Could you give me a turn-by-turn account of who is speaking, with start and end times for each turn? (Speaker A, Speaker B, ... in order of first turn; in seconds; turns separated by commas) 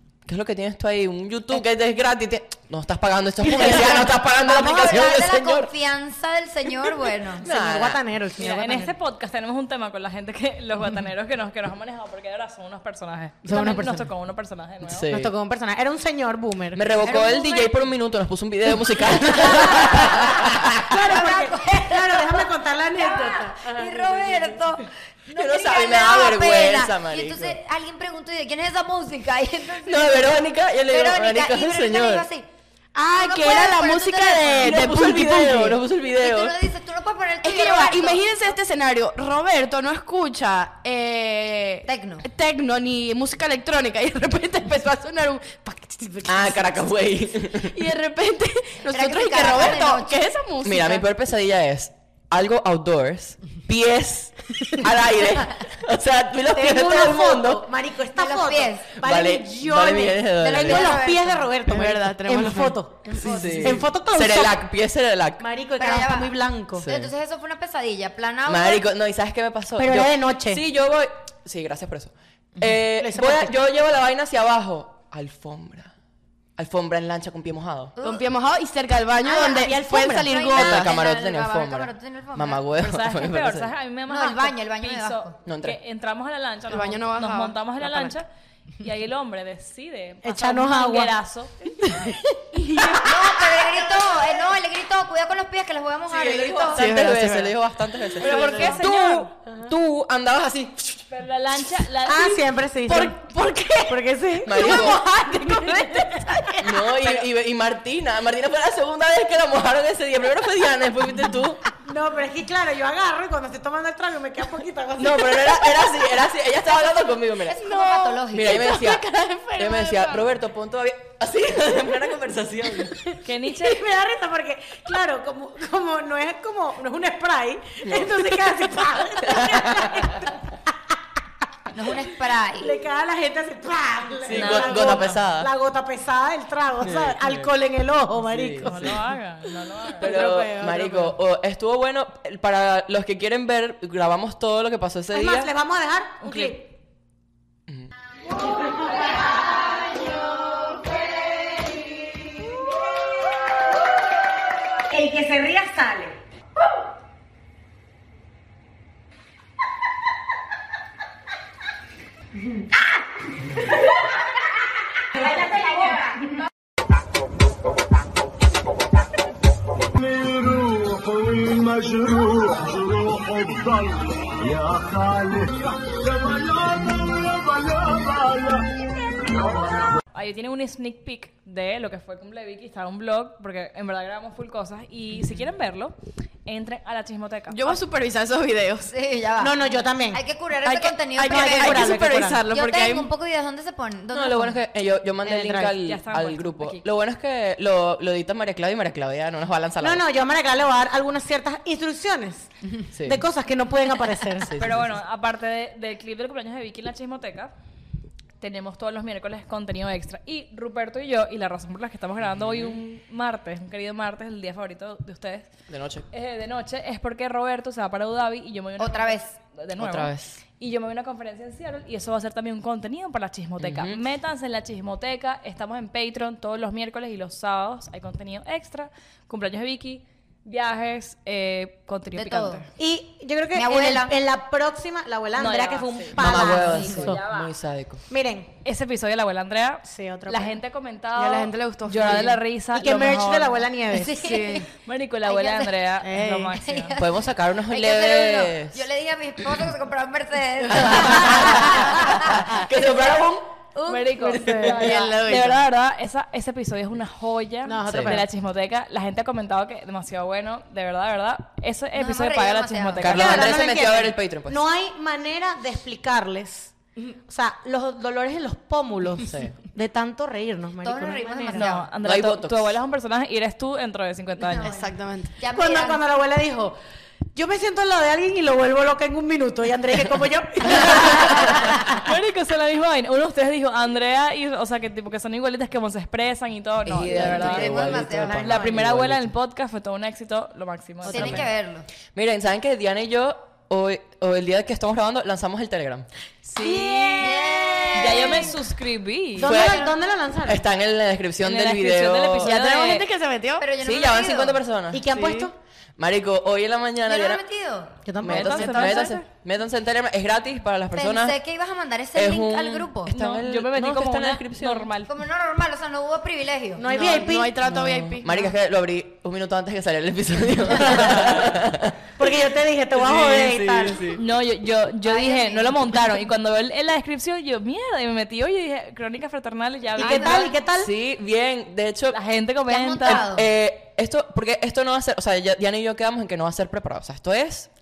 Speaker A: 0.3-5.7, Speaker B: 3.6-7.5, Speaker C: 3.6-4.1, Speaker A: 7.4-8.0, Speaker C: 7.4-8.9, Speaker D: 8.4-15.1, Speaker C: 13.4-14.1, Speaker A: 14.8-15.3, Speaker C: 15.1-16.9, Speaker A: 16.7-20.9, Speaker B: 17.0-17.8, Speaker B: 19.2-32.5, Speaker C: 19.4-24.6, Speaker A: 25.3-27.6, Speaker A: 29.8-32.3, Speaker E: 32.9-35.8, Speaker B: 33.1-34.9, Speaker A: 34.6-36.6, Speaker B: 36.1-38.3, Speaker E: 37.4-46.7, Speaker B: 41.9-42.3, Speaker A: 46.3-47.8, Speaker E: 47.6-51.0, Speaker B: 48.9-50.2, Speaker A: 50.6-57.7, Speaker C: 56.5-64.6, Speaker B: 58.1-58.9, Speaker A: 59.0-61.0, Speaker B: 60.4-61.5, Speaker E: 61.6-63.8, Speaker A: 63.2-65.5, Speaker B: 63.3-63.6, Speaker C: 65.4-66.9, Speaker B: 65.8-68.8, Speaker A: 66.8-67.1, Speaker A: 68.5-75.9, Speaker C: 69.8-70.6, Speaker C: 72.8-73.6, Speaker A: 76.6-78.0, Speaker B: 78.0-78.3, Speaker E: 78.0-80.9, Speaker B: 79.2-82.7, Speaker C: 79.4-80.3, Speaker A: 80.5-83.7, Speaker D: 82.8-88.3, Speaker B: 84.1-85.4, Speaker A: 85.5-85.8, Speaker E: 86.7-88.2, Speaker D: 88.8-91.7, Speaker C: 90.2-91.1, Speaker C: 91.8-92.2, Speaker E: 92.5-93.1, Speaker B: 93.0-96.9, Speaker A: 96.1-101.0, Speaker E: 96.7-97.6, Speaker D: 98.2-99.3, Speaker C: 98.2-98.8, Speaker E: 98.4-98.8, Speaker D: 101.1-102.4, Speaker C: 102.1-103.2, Speaker E: 102.9-106.7, Speaker C: 103.9-106.6, Speaker A: 104.5-105.1, Speaker A: 106.6-111.7, Speaker C: 111.8-115.8, Speaker A: 115.0-117.7, Speaker B: 117.5-118.8, Speaker E: 117.6-120.3, Speaker A: 118.3-123.1, Speaker D: 123.2-123.8, Speaker C: 123.5-130.6, Speaker A: 127.8-128.3, Speaker A: 129.2-130.3, Speaker B: 131.7-132.8, Speaker C: 132.6-139.0, Speaker A: 134.2-135.5, Speaker D: 134.3-135.2, Speaker A: 136.8-137.5, Speaker A: 138.2-139.0, Speaker D: 138.6-140.3, Speaker C: 140.0-141.1, Speaker A: 140.0-145.5, Speaker C: 145.1-146.7, Speaker D: 146.2-146.6, Speaker C: 154.9-156.2, Speaker C: 165.2-165.8, Speaker F: 169.9-180.0, Speaker D: 180.1-187.8, Speaker E: 187.5-188.9, Speaker B: 188.8-194.6, Speaker C: 189.4-190.2, Speaker E: 190.7-193.1, Speaker C: 191.3-192.4, Speaker A: 194.1-200.0, Speaker D: 195.3-196.8, Speaker C: 195.3-195.7, Speaker C: 199.8-204.6, Speaker A: 202.9-203.2, Speaker A: 204.4-204.9, Speaker D: 204.6-207.5, Speaker D: 208.4-215.5, Speaker A: 212.2-212.8, Speaker A: 215.7-216.1, Speaker D: 216.1-232.7, Speaker B: 218.8-219.3, Speaker A: 219.8-220.4, Speaker A: 223.6-224.0, Speaker B: 232.1-232.7, Speaker C: 232.8-237.2, Speaker B: 233.5-234.2, Speaker D: 235.4-237.5, Speaker A: 236.2-238.1, Speaker C: 238.1-238.5, Speaker D: 238.6-243.7, Speaker C: 239.9-240.6, Speaker E: 241.2-242.3, Speaker C: 242.7-244.3, Speaker B: 243.9-244.7, Speaker D: 244.3-246.9, Speaker B: 245.2-245.8, Speaker C: 246.0-246.5, Speaker B: 246.5-252.8, Speaker A: 247.0-248.9, Speaker A: 250.7-253.5, Speaker B: 253.7-254.4, Speaker D: 253.9-263.6, Speaker C: 254.2-255.0, Speaker A: 254.5-255.0, Speaker E: 254.7-255.6, Speaker C: 257.6-258.3, Speaker A: 257.9-258.2, Speaker B: 261.9-263.2, Speaker A: 263.0-264.6, Speaker C: 263.1-271.7, Speaker A: 269.2-269.6, Speaker B: 270.8-271.9, Speaker D: 271.5-274.7, Speaker A: 272.0-272.8, Speaker B: 274.5-276.0, Speaker E: 274.5-275.4, Speaker C: 275.5-276.8, Speaker C: 277.3-282.1, Speaker D: 281.2-291.4, Speaker A: 286.9-289.3, Speaker B: 287.1-288.8, Speaker B: 291.1-291.9, Speaker C: 291.1-291.4, Speaker A: 291.1-291.5, Speaker A: 292.1-296.1, Speaker D: 296.6-297.4, Speaker C: 296.6-298.5, Speaker B: 297.2-298.6, Speaker D: 297.9-299.6, Speaker C: 299.4-300.6, Speaker A: 299.4-299.9, Speaker B: 299.5-300.0, Speaker A: 300.4-302.5, Speaker D: 301.4-303.1, Speaker E: 302.4-303.7, Speaker B: 303.6-304.6, Speaker A: 303.8-305.2, Speaker C: 304.9-305.5, Speaker E: 305.1-305.5, Speaker A: 306.0-307.4, Speaker B: 307.1-308.0, Speaker C: 308.1-309.1, Speaker A: 308.2-311.4, Speaker D: 308.2-309.2, Speaker B: 310.9-313.1, Speaker A: 312.1-314.9, Speaker D: 313.1-315.1, Speaker B: 315.1-316.9, Speaker C: 316.8-317.6, Speaker E: 316.9-318.4, Speaker A: 317.6-322.0, Speaker C: 320.9-321.3, Speaker C: 322.2-324.1, Speaker A: 322.9-324.2, Speaker D: 324.2-330.5, Speaker B: 325.0-325.8, Speaker C: 330.0-330.9, Speaker B: 330.0-330.5, Speaker A: 330.7-332.2, Speaker D: 332.1-333.2, Speaker B: 332.7-333.5, Speaker A: 333.0-337.7